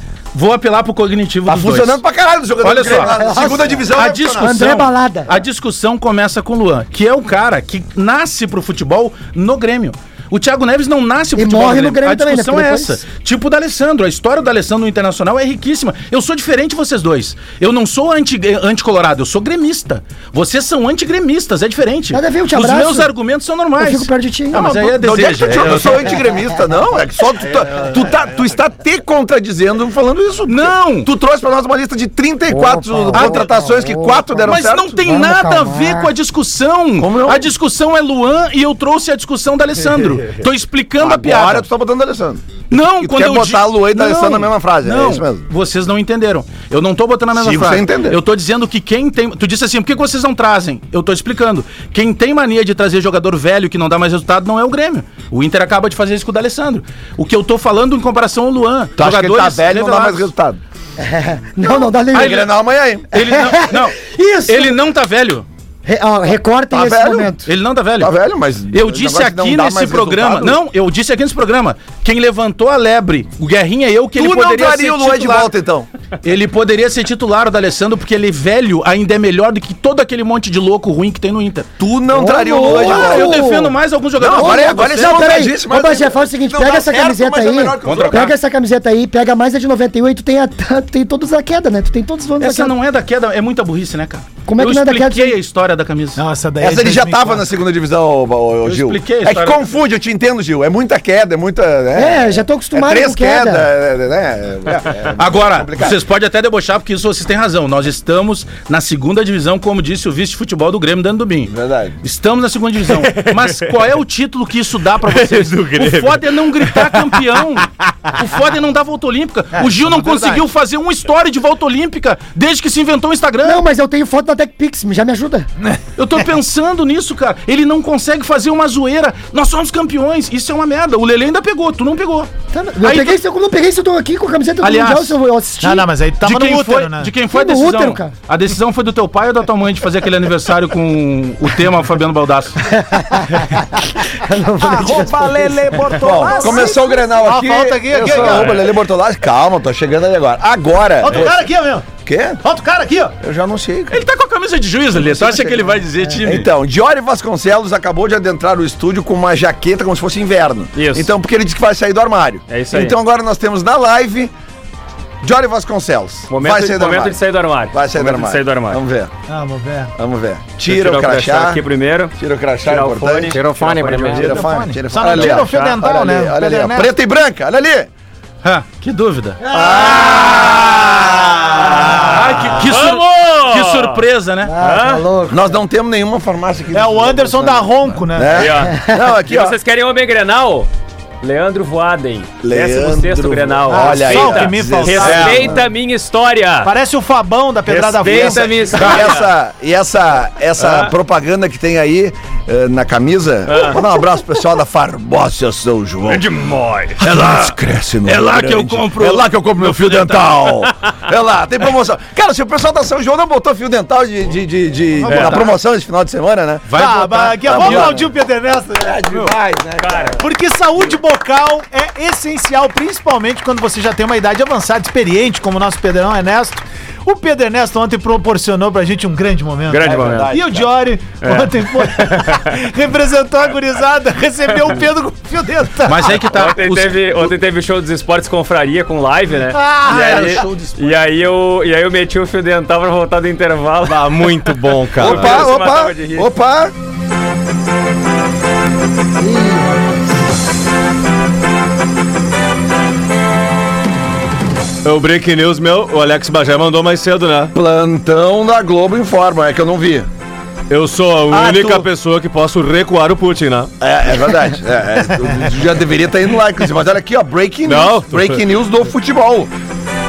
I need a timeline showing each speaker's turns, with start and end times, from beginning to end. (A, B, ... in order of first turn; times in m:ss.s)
0:00.3-0:02.0 A
0:01.5-0:04.6 B
0:02.6-0:03.1 A
0:02.9-0:05.3 C
0:04.0-0:26.2 A
0:11.4-0:13.0 C
0:22.1-0:23.1 C
0:23.8-0:25.0 C
0:24.9-0:35.0 B
0:30.5-0:31.1 A
0:32.5-0:36.1 C
0:33.1-0:33.5 A
0:34.5-0:41.7 A
0:37.0-0:37.5 B
0:41.0-0:45.4 B
0:42.7-1:00.3 A
0:47.3-0:48.2 B
0:59.0-1:00.6 B
1:01.0-1:02.4 C
1:02.1-1:03.1 B
1:02.1-1:02.5 A
1:03.1-1:05.4 A
1:03.2-1:04.7 C
1:05.8-1:07.5 C
1:06.7-1:07.3 B
1:07.4-1:08.1 A
1:08.0-1:10.6 B
1:08.7-1:15.5 A
1:14.1-1:15.9 B
1:16.2-1:21.7 A
1:21.8-1:23.4 B
1:22.1-1:23.7 C
1:22.8-1:25.1 A
1:24.2-1:28.3 B
1:24.3-1:32.7 C
1:27.8-1:28.3 A
1:32.4-1:36.2 A
1:34.4-1:35.4 C
1:36.2-1:37.4 D
1:36.6-1:46.0 B
1:38.6-1:39.6 A
1:41.9-1:43.7 C
1:45.2-2:03.6 A
1:51.5-1:52.0 B
1:52.8-1:53.6 E
1:55.1-1:57.2 E
1:59.6-2:00.4 D
2:03.4-2:05.5 C
2:06.0-2:12.3 A
2:12.5-2:15.9 C
2:12.8-2:13.2 A
2:14.6-2:15.2 A
2:15.6-2:17.1 D
2:16.2-2:22.6 A
2:17.3-2:18.1 C
2:22.7-2:25.8 C
2:24.6-2:28.6 D
2:26.0-2:31.3 B
2:28.2-2:28.6 F
2:31.0-2:31.9 D
2:32.0-2:32.4 B
2:32.4-2:33.1 D
2:33.2-2:34.0 B
2:33.9-2:36.5 A
2:34.9-2:35.7 B
2:36.2-2:44.3 B
2:40.7-2:41.1 F
2:42.5-2:43.0 F
2:45.2-2:47.2 B
2:46.3-2:48.8 F
2:47.7-2:49.1 B
2:49.3-2:49.9 D
2:50.0-2:51.6 B
2:50.6-2:55.8 F
2:52.2-2:53.4 B
2:53.3-2:54.4 E
2:54.0-2:57.9 B
2:54.3-2:56.9 D
2:58.4-2:59.4 A
2:59.4-3:00.7 D
2:59.4-3:01.5 B
3:01.5-3:02.1 E
3:01.9-3:04.0 F
3:02.0-3:04.5 A
3:04.4-3:05.4 C
3:04.6-3:05.0 F
3:05.3-3:09.6 B
3:06.7-3:08.4 D
3:08.3-3:10.7 F
3:11.2-3:16.7 F
3:12.4-3:15.6 B
3:13.7-3:15.6 D
3:16.6-3:18.7 D
3:17.6-3:19.3 F
3:18.0-3:26.3 B
3:20.6-3:20.9 F
3:23.5-3:23.8 F
3:26.0-3:27.0 F
3:27.0-3:36.7 B
3:27.1-3:27.5 A
3:28.0-3:30.6 A
3:35.0-3:35.5 A
3:35.1-3:35.4 F
3:36.7-3:38.0 A
3:36.7-3:39.0 D
3:37.4-3:38.1 B
3:38.8-3:40.2 B
3:39.8-3:40.2 F
3:40.2-3:56.2 D
3:49.7-3:50.6 F
3:49.8-3:50.7 B
3:51.1-3:52.4 F
3:55.8-3:57.3 A
3:56.2-4:06.3 F
3:59.5-4:00.1 D
3:59.8-4:01.0 A
4:03.8-4:05.5 E
4:05.0-4:06.7 B
4:09.2-4:10.0 C
4:14.8-4:17.5 E
4:17.5-4:20.1 B
4:20.7-4:23.7 E
4:21.3-4:21.9 B
4:23.8-4:29.5 B
4:27.6-4:28.4 E